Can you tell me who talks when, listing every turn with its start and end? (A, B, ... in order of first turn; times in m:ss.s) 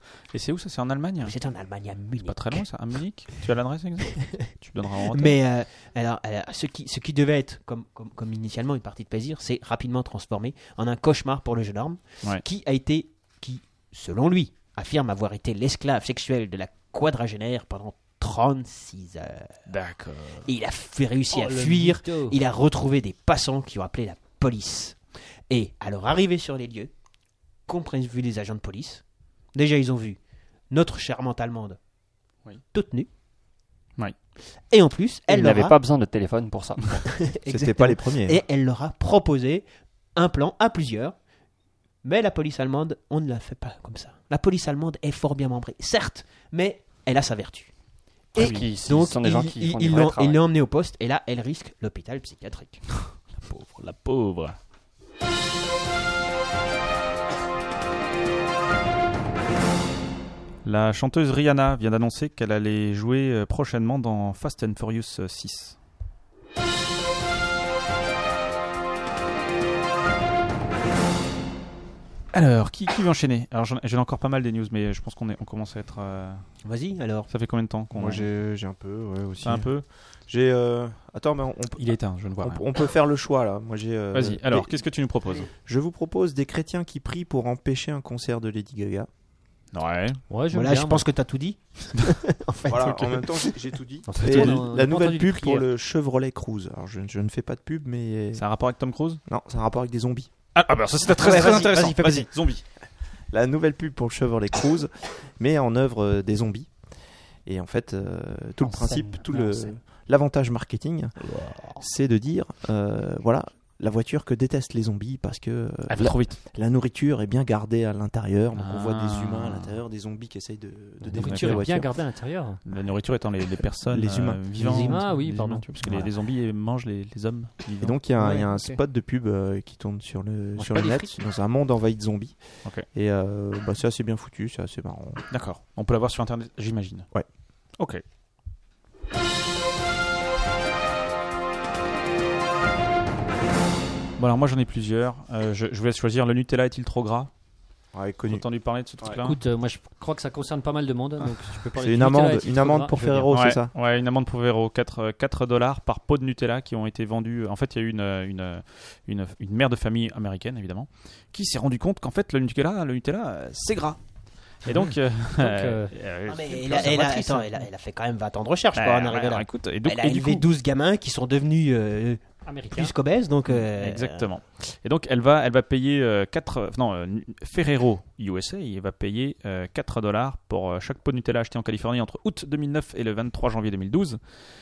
0:00.3-0:01.4 A
0:01.2-0:02.7 B
0:02.2-0:05.4 A
0:05.0-0:19.5 B
0:19.7-0:20.5 A
0:20.4-0:26.9 B
0:21.3-0:22.4 C
0:27.7-0:29.0 B
0:29.5-0:30.2 B
0:30.7-0:31.8 B
0:32.7-0:33.1 B
0:34.7-0:35.8 B
0:35.3-0:37.0 D
0:37.1-0:41.1 B
0:37.5-0:38.4 E
0:42.0-0:47.7 B
0:48.3-0:52.8 B
0:48.4-0:50.4 D
0:48.4-0:48.7 A
0:53.1-0:54.6 A
1:00.6-1:05.8 A
1:12.3-1:16.4 A
1:16.6-1:17.3 B
1:17.3-1:18.3 A
1:17.9-1:19.7 E
1:19.4-1:19.8 A
1:20.3-1:24.7 E
1:21.8-1:22.6 A
1:24.1-1:25.5 A
1:25.4-1:29.1 E
1:29.7-1:30.2 A
1:30.3-1:31.0 C
1:30.5-1:33.1 B
1:32.7-1:38.4 E
1:34.1-1:35.7 C
1:34.2-1:34.5 A
1:38.3-1:39.2 A
1:39.3-1:40.3 E
1:40.6-1:42.6 A
1:41.2-1:42.3 B
1:43.3-1:46.7 E
1:47.4-1:51.2 E
1:48.6-1:49.8 D
1:51.2-1:51.8 A
1:51.8-2:01.9 E
1:55.9-1:56.4 A
1:58.6-1:59.8 A
2:01.1-2:02.6 C
2:01.1-2:01.7 A
2:02.7-2:08.0 A
2:03.9-2:04.9 E
2:04.7-2:06.1 C
2:07.8-2:15.2 E
2:08.2-2:08.4 B
2:08.2-2:08.8 C
2:10.6-2:11.2 C
2:15.3-2:17.1 A
2:17.8-2:18.0 A
2:24.2-2:27.3 A
2:27.9-2:28.4 E
2:28.3-2:29.4 A
2:29.1-2:33.4 C
2:31.8-2:33.7 E
2:33.3-2:47.2 A
2:44.7-2:45.9 C
2:46.3-2:54.3 B
2:47.0-2:47.7 C
2:48.7-2:50.5 A
2:52.4-2:52.9 C
2:53.5-3:04.2 A